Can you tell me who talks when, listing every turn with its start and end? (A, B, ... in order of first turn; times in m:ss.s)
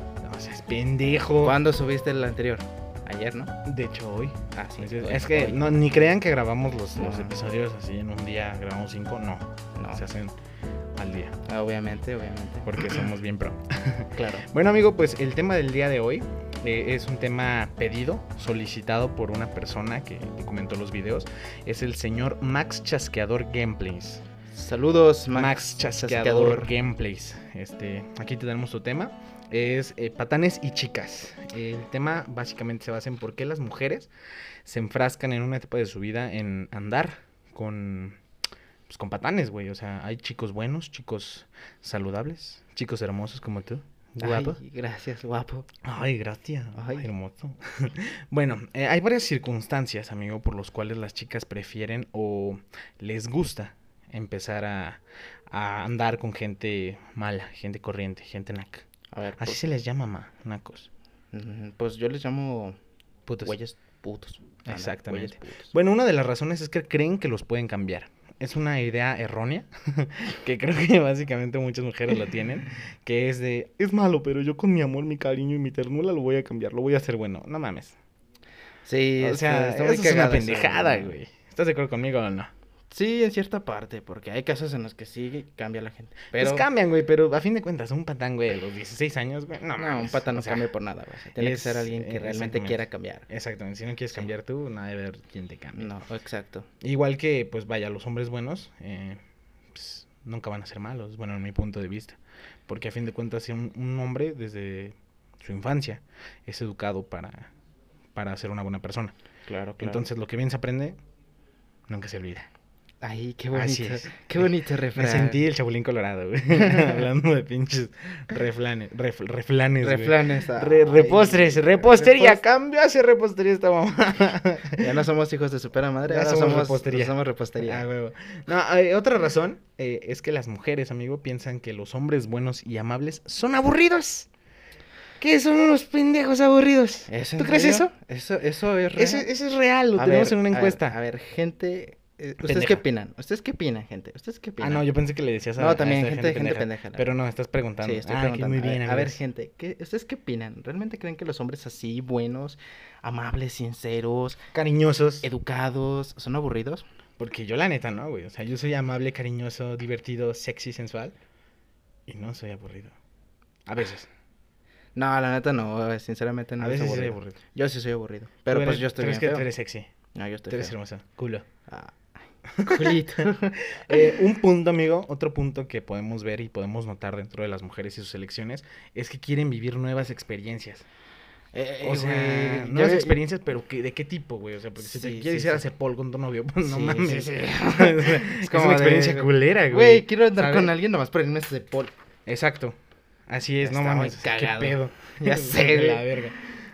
0:00.2-0:01.6 A
0:01.4-0:03.5 B
0:03.6-0:10.3 A
0:04.5-0:05.7 B
0:06.9-0:07.3 B
0:09.7-0:10.1 B
0:11.0-0:11.4 A
0:11.4-0:13.0 B
0:12.6-0:24.2 A
0:14.1-0:14.4 B
0:24.5-0:26.7 B
0:25.3-0:34.1 A
0:34.6-0:38.2 A
0:38.9-0:44.6 A
0:44.2-0:45.7 B
0:45.8-0:58.8 A
0:46.8-0:47.1 B
0:59.1-0:59.6 B
0:59.4-1:00.9 A
1:01.3-1:02.8 B
1:03.3-1:03.5 A
1:03.4-1:05.7 B
1:04.6-1:18.0 A
1:18.8-1:21.2 B
1:19.2-1:22.5 A
1:22.9-1:26.7 B
1:26.3-1:30.7 A
1:29.8-1:33.3 B
1:31.4-1:35.9 A
1:35.8-1:36.7 B
1:36.8-1:39.2 A
1:39.7-1:47.5 A
1:48.1-1:49.1 A
1:49.5-1:50.1 B
1:49.8-1:51.0 A
1:51.9-1:52.5 A
1:53.0-1:55.4 B
1:53.5-2:05.0 A
1:59.8-2:02.4 B
2:04.8-2:07.8 B
2:06.1-2:14.3 A
2:15.2-2:17.9 A
2:17.1-2:19.3 B
2:19.0-2:21.0 A
2:20.0-2:24.9 B
2:22.4-2:22.8 A
2:24.6-2:29.2 A
2:25.6-2:27.1 B
2:27.8-2:34.4 B
2:34.5-2:35.3 A
2:35.2-2:36.9 B
2:37.2-2:41.1 A
2:42.1-2:42.9 A
2:43.7-2:44.1 A
2:45.0-2:49.5 B
2:46.6-2:47.4 A
2:48.5-2:49.9 A
2:50.1-2:50.7 B
2:50.5-2:51.4 A
2:51.7-2:52.0 B
2:52.6-2:53.1 A
2:52.6-2:54.1 B
2:53.7-3:00.8 A
3:01.5-3:03.2 B
3:01.8-3:10.7 A
3:04.8-3:05.6 B
3:06.6-3:11.9 B
3:12.2-3:12.8 A
3:13.3-3:16.4 A
3:13.6-3:16.2 B